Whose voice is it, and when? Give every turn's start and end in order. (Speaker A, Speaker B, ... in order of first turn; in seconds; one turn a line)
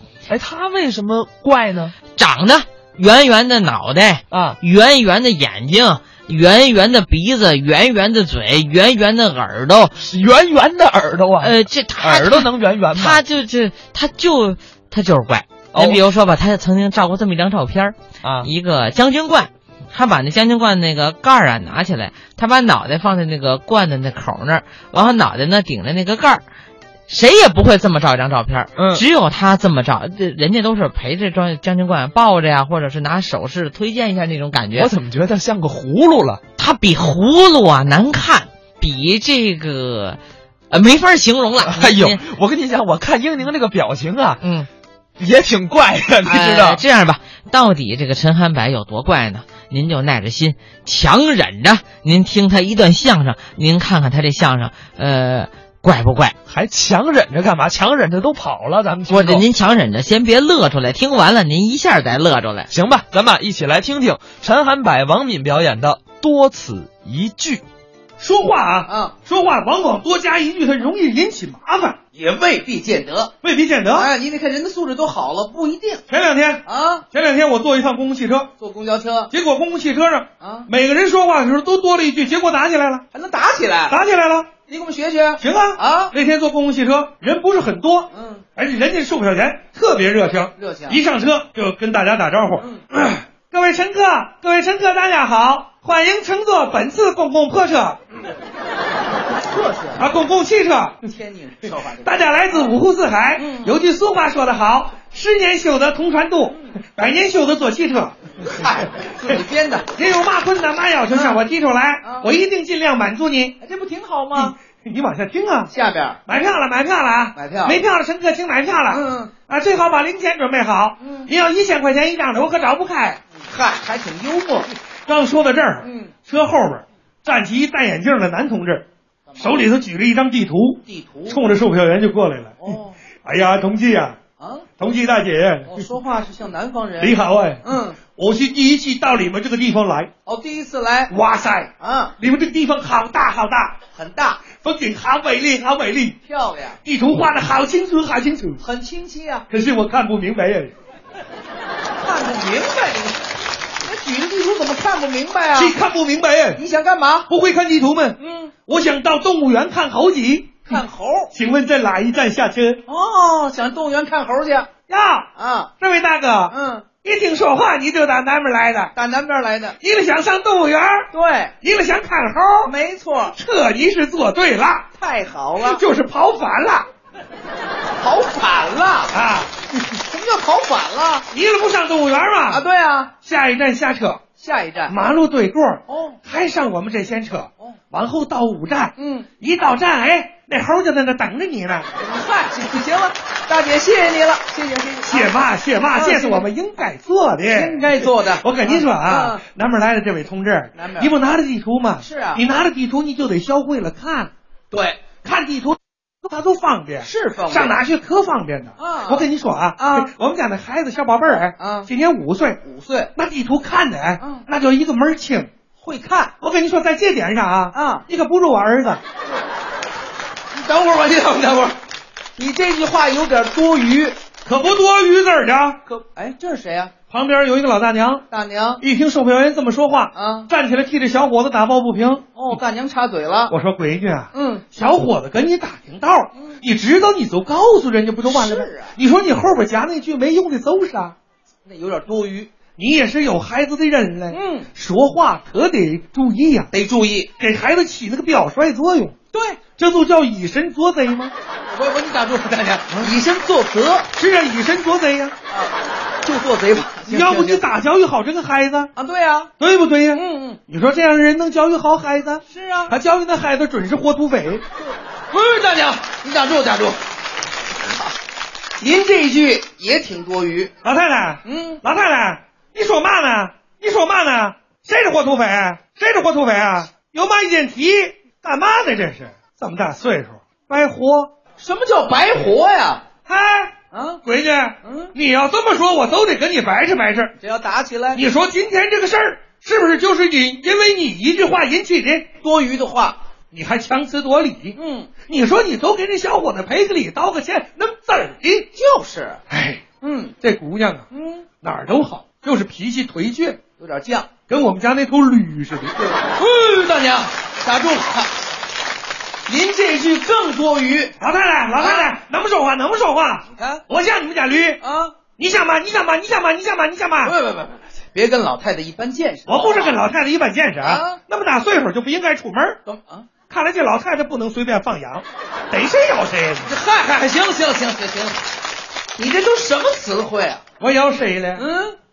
Speaker A: 0.3-1.9
Speaker B: 2.1-9.9
Speaker A: 10.0-13.2
Speaker B: 11.4-26.4
Speaker A: 15.7-16.0
Speaker A: 18.2-18.5
Speaker B: 27.1-34.9
Speaker A: 28.8-29.0
Speaker A: 34.8-36.4
Speaker B: 36.6-40.2
Speaker B: 40.7-42.2
Speaker A: 41.6-44.4
Speaker B: 44.4-44.7
Speaker A: 45.2-46.8
Speaker B: 46.2-56.3
Speaker A: 56.5-59.4
Speaker B: 59.1-62.7
Speaker A: 62.7-67.6
Speaker C: 68.2-72.0
Speaker D: 68.8-69.1
Speaker D: 72.1-73.3
Speaker C: 73.4-74.1
Speaker D: 73.9-76.0
Speaker C: 76.1-78.5
Speaker D: 76.6-77.0
Speaker D: 78.6-79.3
Speaker C: 79.3-83.0
Speaker D: 80.4-80.7
Speaker D: 83.1-84.0
Speaker C: 83.9-84.5
Speaker D: 84.7-86.1
Speaker C: 85.4-98.0
Speaker D: 88.1-88.4
Speaker D: 90.5-91.0
Speaker D: 99.4-100.0
Speaker C: 100.0-101.0
Speaker D: 101.0-102.7
Speaker C: 102.0-108.7
Speaker D: 103.4-103.8
Speaker D: 108.4-109.9
Speaker C: 109.9-113.6
Speaker D: 111.1-111.4
Speaker D: 112.0-112.3
Speaker D: 113.6-114.5
Speaker C: 114.3-115.7
Speaker D: 115.7-116.2
Speaker C: 116.2-123.2
Speaker D: 117.3-117.8
Speaker D: 118.9-119.3
Speaker D: 121.0-121.3
Speaker D: 123.4-124.7
Speaker C: 125.0-128.8
Speaker D: 125.8-126.1
Speaker D: 129.3-129.6
Speaker C: 129.4-134.2
Speaker D: 130.8-131.4
Speaker D: 132.6-132.9
Speaker D: 134.4-134.7
Speaker C: 134.8-135.9
Speaker D: 135.7-138.0
Speaker C: 137.0-140.1
Speaker D: 140.2-141.1
Speaker C: 141.1-143.8
Speaker D: 141.8-142.1
Speaker D: 143.9-144.4
Speaker C: 144.5-146.2
Speaker D: 146.2-146.8
Speaker C: 146.8-148.6
Speaker D: 148.6-149.4
Speaker C: 149.5-150.7
Speaker D: 152.0-153.3
Speaker D: 153.8-155.8
Speaker C: 155.5-156.6
Speaker D: 156.5-157.3
Speaker C: 157.3-160.8
Speaker D: 158.2-158.5
Speaker D: 160.7-161.3
Speaker C: 161.3-162.8
Speaker D: 162.8-164.7
Speaker C: 164.9-168.9
Speaker D: 165.3-165.7
Speaker D: 166.5-166.9
Speaker D: 168.9-169.8
Speaker C: 169.8-172.7
Speaker D: 171.1-171.5
Speaker D: 172.6-173.3
Speaker C: 173.3-174.9
Speaker D: 174.9-175.8
Speaker C: 175.6-176.9
Speaker D: 178.0-179.2
Speaker C: 179.1-179.5
Speaker D: 179.9-181.3
Speaker C: 181.3-182.6
Speaker D: 182.5-183.1
Speaker C: 183.2-184.2
Speaker D: 184.4-185.0
Speaker C: 184.9-191.9
Speaker D: 185.9-186.2
Speaker D: 189.0-189.3
Speaker D: 192.0-195.3
Speaker C: 195.1-204.3
Speaker D: 195.9-196.5
Speaker D: 197.4-199.4
Speaker D: 200.8-201.1
Speaker D: 202.0-202.4
Speaker D: 204.7-205.0
Speaker C: 205.2-212.6
Speaker D: 207.0-207.8
Speaker D: 208.8-210.1
Speaker D: 211.6-211.9
Speaker D: 212.6-213.1
Speaker C: 213.1-215.5
Speaker D: 214.2-214.4
Speaker D: 215.8-216.3
Speaker C: 216.4-219.0
Speaker D: 217.7-218.1
Speaker D: 220.5-221.8
Speaker D: 222.4-224.2
Speaker C: 224.4-225.8
Speaker D: 225.9-226.9
Speaker C: 227.1-228.2
Speaker D: 228.3-228.8
Speaker C: 228.8-232.6
Speaker D: 230.1-230.5
Speaker D: 232.3-233.5
Speaker C: 233.5-241.1
Speaker D: 234.3-234.6
Speaker D: 238.2-238.9
Speaker D: 241.7-242.5
Speaker C: 242.8-246.7
Speaker D: 244.3-244.7
Speaker D: 246.7-247.3
Speaker C: 247.4-249.1
Speaker D: 249.3-249.6
Speaker C: 249.8-251.3
Speaker D: 251.7-254.1
Speaker C: 254.1-255.3
Speaker D: 255.5-257.7
Speaker C: 257.1-258.9
Speaker D: 258.9-259.5
Speaker C: 259.6-264.6
Speaker D: 260.1-260.6
Speaker D: 262.5-262.9
Speaker D: 264.9-267.0
Speaker D: 267.8-268.1
Speaker D: 268.8-270.7
Speaker C: 270.8-281.3
Speaker D: 271.4-271.8
Speaker D: 281.6-283.0
Speaker C: 283.3-287.3
Speaker D: 283.9-284.2
Speaker D: 284.8-285.1
Speaker D: 287.4-288.2
Speaker C: 288.1-292.3
Speaker D: 292.4-293.2
Speaker C: 293.5-298.7
Speaker D: 294.7-295.1
Speaker D: 298.7-299.4
Speaker C: 299.5-299.8
Speaker D: 300.0-300.3
Speaker C: 300.4-301.0
Speaker D: 301.1-301.4
Speaker C: 301.6-303.6
Speaker D: 303.8-304.3
Speaker C: 304.5-306.1
Speaker D: 306.1-308.3
Speaker D: 309.5-311.1
Speaker C: 311.2-314.8
Speaker D: 311.7-312.1
Speaker D: 313.4-313.8
Speaker D: 314.8-315.1
Speaker C: 315.4-317.4
Speaker D: 317.2-320.0
Speaker C: 319.5-322.8
Speaker D: 320.8-321.2
Speaker D: 322.8-323.3
Speaker C: 323.5-326.8
Speaker D: 326.6-328.5
Speaker D: 329.1-330.6
Speaker C: 330.8-331.7
Speaker D: 331.5-331.9